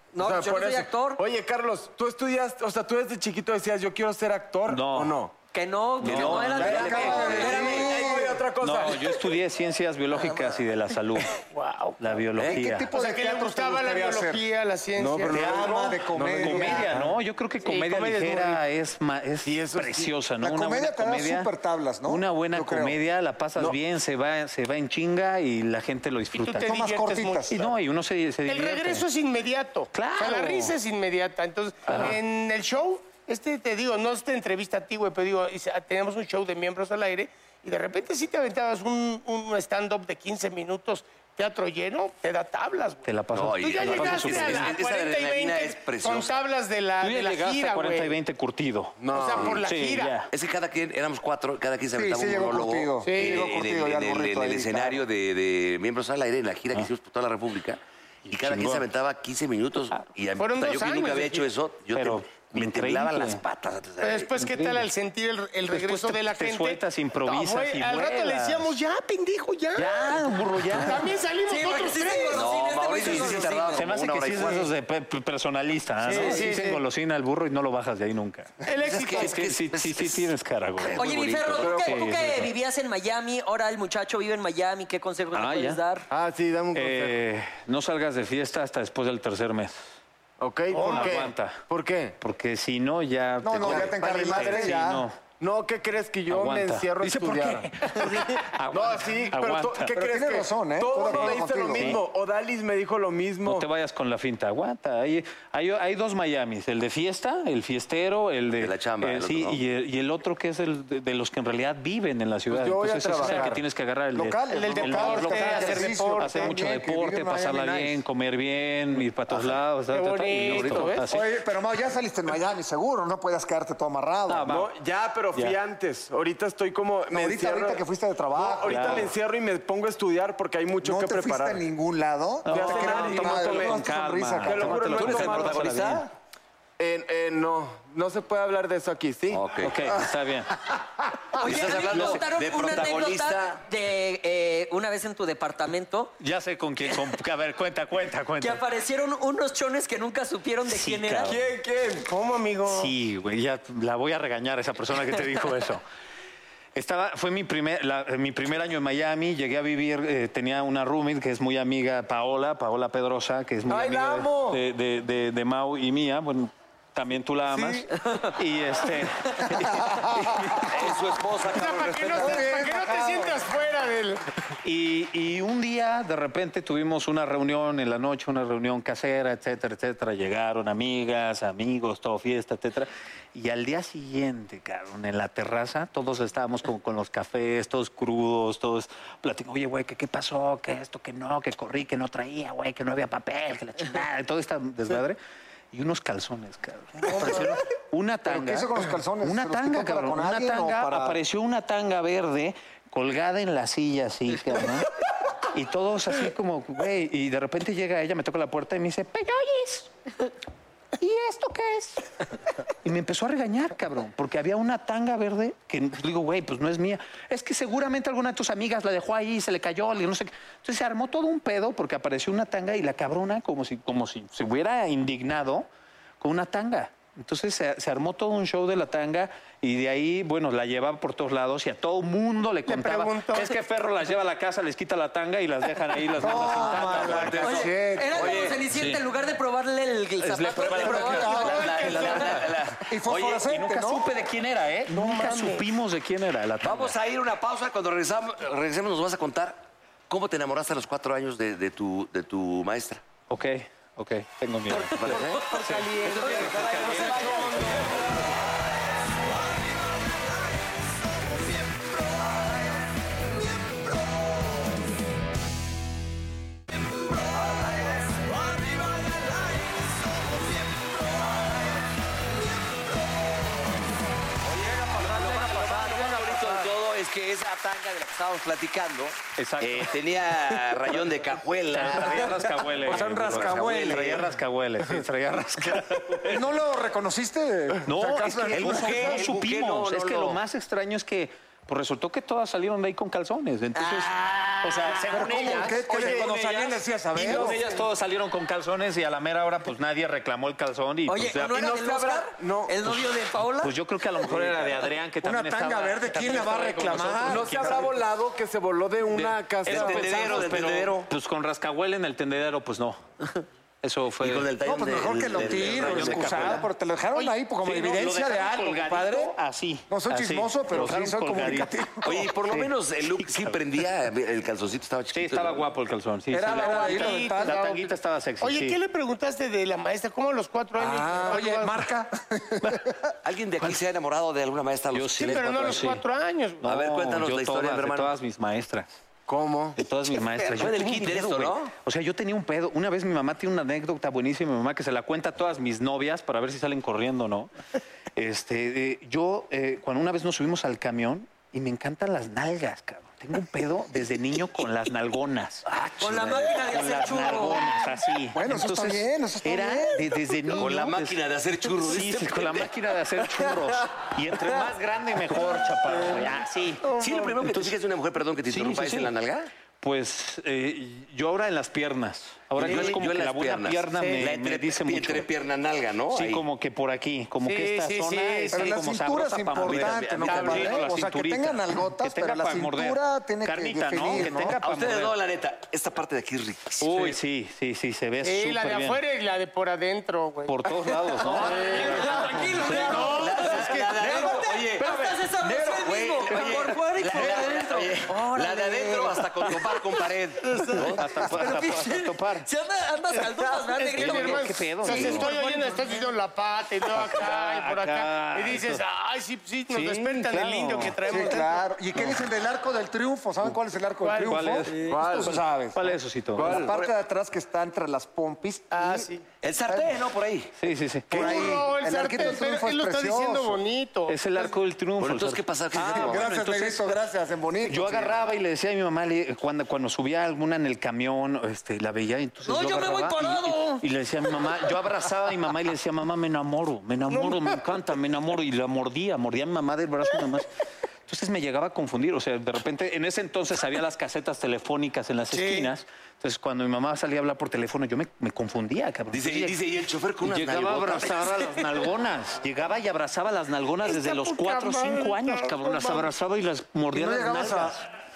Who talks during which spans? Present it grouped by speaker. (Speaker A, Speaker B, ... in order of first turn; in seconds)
Speaker A: 0.1-1.2, 5.5-8.0, 71.5-73.9, 81.0-86.1, 141.3-146.1, 148.4-151.4, 237.4-241.6, 255.1-257.5, 293.8-295.5, 301.1-303.7, 356.0-357.7, 391.2-405.6, 432.5-433.8
Speaker B: 0.2-5.3, 6.7-9.4, 15.0-17.2, 19.4-20.1, 49.0-49.6, 81.6-82.1, 86.1-87.2, 90.4-92.2, 93.6-103.7, 112.5-113.6, 124.5-127.8, 128.3-131.6, 132.5-133.9, 134.4-136.0, 136.8-139.4, 151.2-152.1, 163.7-164.6, 167.5-167.8, 255.1-258.2, 295.9-296.4, 297.2-297.6, 301.3-302.8, 307.2-310.9, 339.3-339.8, 367.0-367.3, 391.4-392.0, 414.8-415.4, 416.4-416.8
Speaker C: 4.7-5.2, 6.0-7.3, 8.6-11.4, 12.0-12.9, 15.3-21.5, 22.1-26.8, 27.5-29.1, 29.9-30.8, 31.9-32.2, 43.0-44.8, 47.0-49.0, 49.6-50.3, 58.3-58.9, 62.0-63.4, 64.4-64.9, 65.7-68.8, 69.8-71.1, 73.0-78.5, 79.1-81.0, 81.8-82.5, 85.3-85.8, 86.7-89.8, 90.8-91.6, 92.2-95.2, 96.3-100.0, 101.1-102.0, 103.5-121.3, 124.3-124.7, 128.6-129.1, 132.4-136.1, 139.6-140.6, 141.4-142.9, 146.2-148.6, 150.7-151.5, 152.7-155.8, 156.8-170.9, 174.6-195.2, 195.7-204.9, 205.5-209.9, 211.0-212.1, 212.8-225.7, 226.2-237.6, 238.7-239.0, 240.2-242.5, 243.5-246.9, 253.3-257.5, 279.4-280.0, 281.7-286.4, 287.9-301.5, 302.8-308.0, 309.1-313.0, 313.8-314.5, 315.3-316.7, 317.6-321.8, 322.4-323.6, 325.1-328.8, 334.9-336.0, 336.6-338.9, 339.8-347.5, 348.2-355.7, 356.4-361.2, 361.8-366.9, 367.4-367.8, 368.5-369.1, 369.8-375.3, 376.1-385.1, 386.8-389.0, 390.5-393.2, 400.9-402.5, 404.0-405.9, 406.9-408.8, 409.7-411.4, 414.2-416.7, 420.6-421.6, 424.1-427.0, 427.7-440.5, 441.1-449.6, 450.2-457.9
Speaker D: 6.0-7.6, 12.4-12.6, 43.3-46.3, 50.3-64.3, 72.3-74.7, 78.8-81.8, 108.6-109.6, 120.5-120.9, 134.9-136.1, 139.3-140.0, 141.4-143.6, 170.6-172.5, 236.3-238.6, 240.6-243.5, 246.6-253.0, 254.8-258.1, 267.4-269.7, 274.4-284.3, 288.5-290.4, 309.6-311.1, 314.2-316.6, 322.0-325.7, 333.2-336.0, 336.6-338.1, 340.5-341.7, 355.7-356.6, 360.6-362.7, 367.0-369.5, 372.6-376.4, 379.5-380.8, 384.2-387.2, 391.5-401.1, 419.4-420.5, 425.0-426.3, 449.1-451.4
Speaker E: 6.5-8.4, 12.4-14.4, 15.2-17.0, 20.4-23.0, 26.6-27.7, 51.9-55.0, 93.4-95.0, 100.0-102.0, 113.2-113.6, 114.2-118.0, 121.1-124.5, 127.1-129.1, 130.8-135.0, 169.6-170.7, 172.1-173.5, 197.2-197.4, 198.3-201.2, 236.1-238.4, 240.7-242.3, 242.8-244.1, 282.9-284.3, 286.2-289.3, 295.1-297.6, 305.2-307.8, 314.6-319.4, 319.9-322.3, 326.3-327.6, 330.8-333.1, 358.3-360.4, 378.5-384.6, 411.1-419.1, 419.7-420.0, 421.1-423.6, 425.9-428.3, 456.9-457.8
Speaker F: 11.3-12.1, 12.9-15.5, 17.6-18.6, 26.3-27.6, 28.5-48.2, 49.1-50.2, 53.0-53.5, 60.4-61.5, 64.0-72.5, 76.0-76.8, 78.6-79.4, 90.7-91.3, 114.5-116.6, 119.9-121.1, 152.1-152.9, 171.5-174.2, 197.1-197.5, 232.7-233.6, 241.4-242.4, 244.9-245.7, 326.5-331.9, 335.2-336.6, 372.7-372.9, 373.9-374.2, 377.4-378.8, 380.2-380.8, 388.2-394.4, 400.6-400.9, 403.2-411.7, 414.0-414.8, 418.7-419.3, 421.1-424.5, 437.1-437.6, 445.3-445.7, 453.8-456.1